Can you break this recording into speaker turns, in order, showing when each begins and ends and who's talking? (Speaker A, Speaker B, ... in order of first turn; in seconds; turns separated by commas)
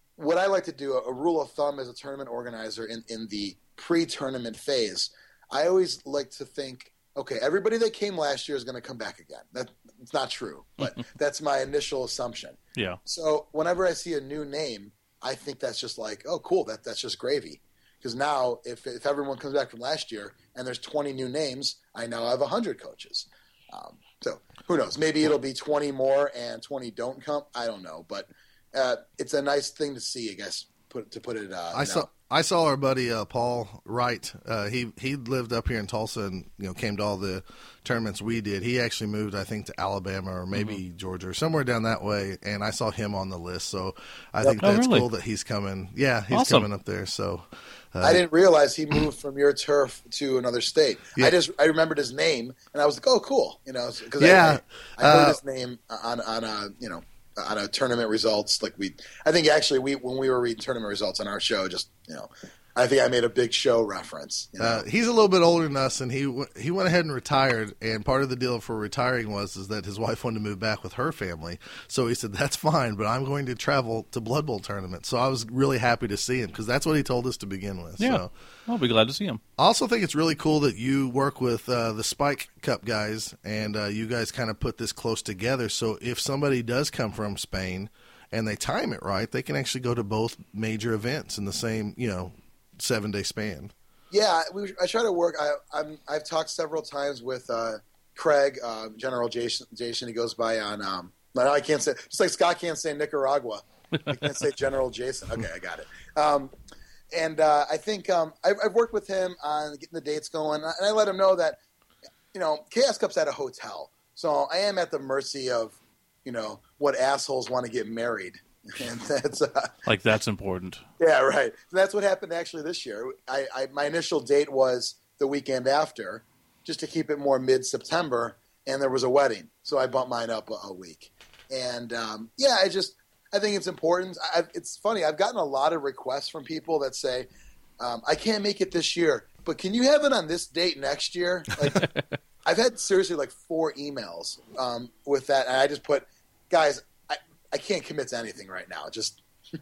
Speaker A: 0.2-32.1, Speaker B: 31.7-48.2, Speaker C: 40.5-40.8, Speaker C: 44.6-45.1, Speaker C: 46.3-46.7, Speaker A: 48.0-64.8, Speaker B: 54.2-55.4, Speaker B: 64.6-78.3, Speaker C: 78.0-79.4, Speaker B: 79.6-93.7, Speaker A: 94.1-106.5, Speaker A: 107.1-111.6, Speaker A: 112.3-119.7, Speaker C: 119.8-120.8, Speaker A: 121.0-137.3, Speaker A: 137.8-141.9, Speaker A: 142.4-149.2